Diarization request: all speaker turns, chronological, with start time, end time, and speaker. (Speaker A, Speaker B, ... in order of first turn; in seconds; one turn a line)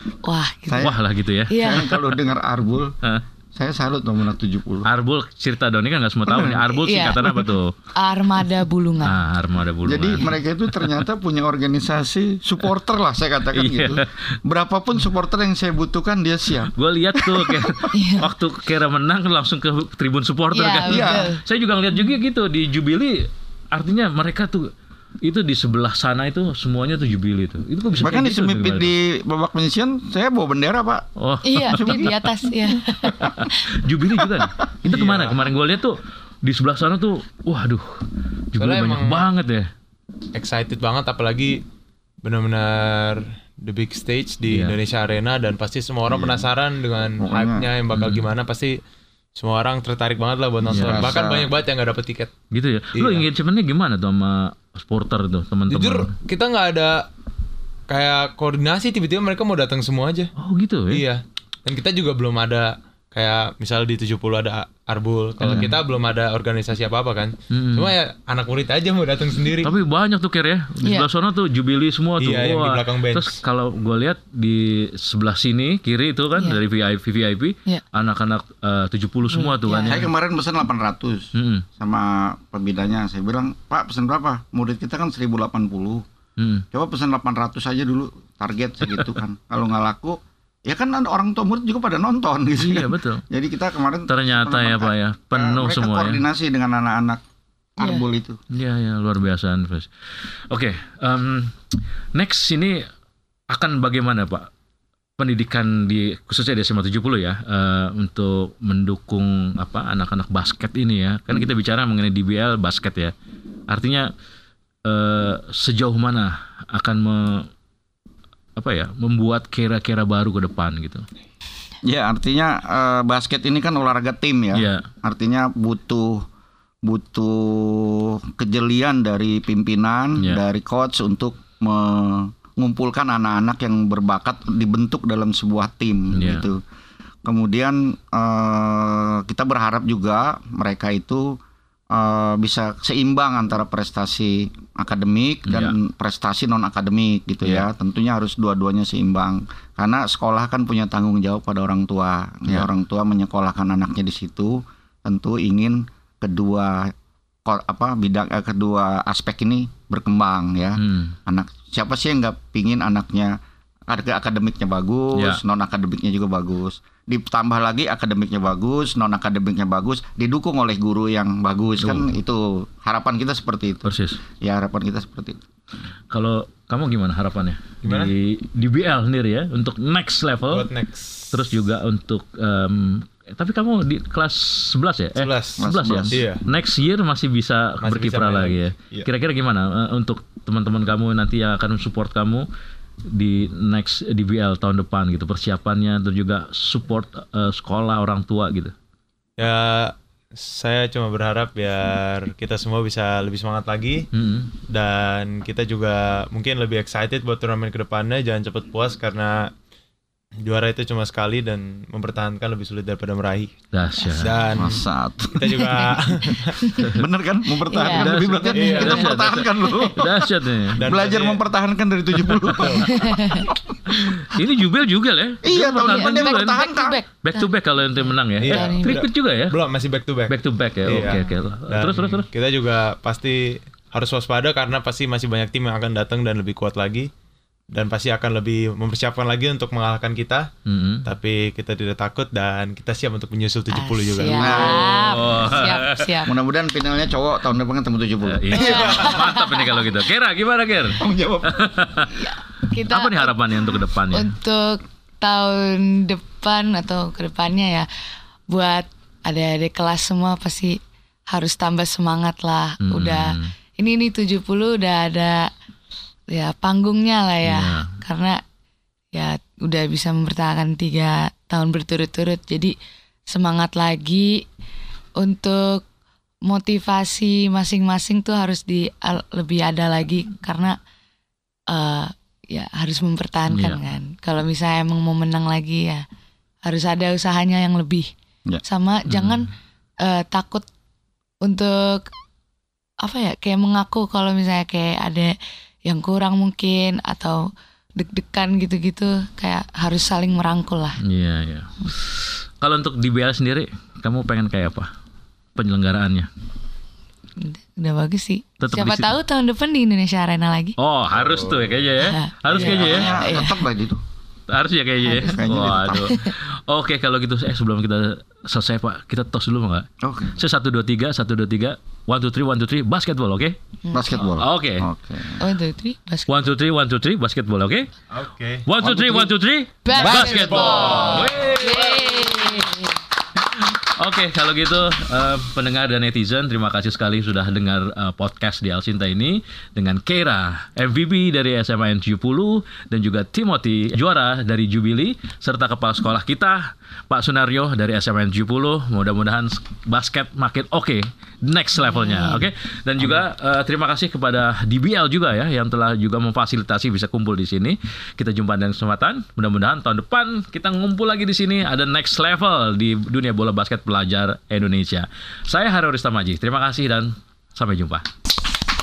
Speaker A: 0.2-0.9
Speaker B: 0.7-1.0
Speaker C: 0.8-2.0
Speaker A: 1.5-1.8
Speaker B: 1.6-3.0
Speaker B: 3.5-4.9
Speaker C: 4.8-7.7
Speaker B: 6.3-6.6
Speaker A: 6.6-7.4
Speaker A: 8.0-9.2
Speaker C: 9.0-10.9
Speaker B: 9.8-17.8
Speaker C: 13.5-14.2
Speaker C: 16.7-24.7
Speaker A: 17.9-18.3
Speaker A: 20.5-21.4
Speaker B: 20.9-21.3
Speaker C: 25.2-28.9
Speaker B: 28.0-31.1
Speaker C: 31.2-32.3
Speaker A: 31.4-33.6
Speaker B: 31.7-32.1
Speaker C: 33.0-39.7
Speaker D: 34.9-35.5
Speaker D: 38.6-39.3
Speaker D: 40.3-41.6
Speaker D: 42.2-48.8
Speaker C: 44.5-44.8
Speaker B: 46.1-46.5
Speaker B: 47.2-47.7
Speaker C: 47.9-48.3
Speaker D: 49.4-52.3
Speaker C: 50.7-51.2
Speaker B: 50.7-51.5
Speaker C: 52.5-56.1
Speaker D: 53.0-53.2
Speaker D: 55.7-57.1
Speaker D: 57.9-60.3
Speaker C: 60.4-61.0
Speaker D: 60.9-69.8
Speaker C: 65.4-65.8
Speaker C: 67.5-67.9
Speaker C: 69.6-80.1
Speaker D: 72.2-73.4
Speaker A: 79.3-80.0
Speaker B: 79.9-86.0
Speaker C: 81.3-81.7
Speaker C: 86.4-86.6
Speaker B: 86.7-97.2
Speaker C: 92.6-93.2
Speaker C: 94.1-96.2
Speaker B: 97.8-98.4
Speaker C: 98.5-101.5
Speaker C: 102.2-102.8
Speaker C: 103.5-104.5
Speaker C: 105.2-113.1
Speaker C: 113.7-114.1
Speaker C: 114.8-117.5
Speaker C: 118.6-121.0
Speaker B: 121.8-126.2
Speaker C: 124.5-124.8
Speaker B: 126.8-136.6
Speaker C: 136.1-136.4
Speaker B: 137.2-141.4
Speaker B: 141.9-156.9
Speaker C: 145.5-145.7
Speaker B: 157.4-163.3
Speaker C: 160.8-161.2
Speaker B: 163.9-175.4
Speaker C: 165.2-165.4
Speaker C: 171.8-172.1
Speaker C: 173.8-174.2
Speaker C: 176.1-180.7
Speaker D: 177.8-178.1
Speaker D: 180.5-181.4
Speaker C: 181.3-192.4
Speaker D: 185.2-186.4
Speaker B: 185.6-186.2
Speaker D: 187.8-189.1
Speaker C: 193.1-198.7
Speaker D: 199.4-204.1
Speaker C: 204.1-204.5
Speaker D: 204.7-209.5
Speaker D: 210.4-213.5
Speaker C: 213.7-214.5
Speaker A: 214.0-214.3
Speaker D: 214.2-214.8
Speaker B: 214.5-216.0
Speaker D: 215.3-216.6
Speaker A: 215.8-216.9
Speaker B: 216.8-223.8
Speaker A: 217.7-218.2
Speaker C: 217.8-220.8
Speaker D: 218.5-219.1
Speaker D: 220.8-221.4
Speaker D: 222.4-222.8
Speaker A: 222.9-223.5
Speaker C: 223.9-226.6
Speaker B: 225.4-227.0
Speaker A: 225.9-227.5
Speaker C: 227.2-229.6
Speaker A: 228.0-229.0
Speaker D: 228.4-237.1
Speaker C: 230.3-232.3
Speaker D: 237.7-240.5
Speaker C: 240.7-241.1
Speaker D: 241.1-244.7
Speaker A: 243.7-246.3
Speaker B: 244.3-245.2
Speaker C: 244.5-246.1
Speaker B: 246.2-249.1
Speaker C: 248.2-252.1
Speaker D: 248.5-249.2
Speaker A: 248.6-249.9
Speaker B: 251.0-251.8
Speaker A: 252.1-257.9
Speaker C: 252.9-254.3
Speaker A: 258.5-265.5
Speaker C: 262.8-263.5
Speaker A: 266.3-268.4
Speaker C: 267.4-267.9
Speaker A: 269.1-272.7
Speaker A: 273.3-274.4
Speaker A: 275.2-275.8
Speaker A: 276.4-280.8
Speaker A: 281.7-286.0
Speaker C: 283.5-283.8
Speaker A: 286.6-288.1
Speaker A: 288.6-289.5
Speaker C: 289.1-289.4
Speaker A: 290.0-290.6
Speaker A: 291.4-292.1
Speaker A: 293.0-295.3
Speaker A: 295.9-301.0
Speaker C: 301.0-304.9
Speaker C: 305.6-306.3
Speaker A: 307.4-310.8
Speaker C: 308.6-309.1
Speaker C: 310.8-313.2
Speaker D: 311.1-311.7
Speaker A: 312.0-313.6
Speaker B: 312.5-314.0
Speaker D: 312.5-313.0
Speaker C: 314.5-323.6
Speaker A: 315.0-316.3
Speaker B: 315.1-316.1
Speaker B: 320.0-320.4
Speaker B: 323.9-325.4
Speaker C: 324.2-324.9
Speaker A: 325.4-326.5
Speaker C: 326.3-327.9
Speaker D: 328.1-328.6
Speaker C: 328.6-332.7
Speaker B: 328.8-329.3
Speaker A: 329.8-332.9
Speaker D: 330.0-331.3
Speaker C: 333.4-368.0
Speaker A: 351.8-352.5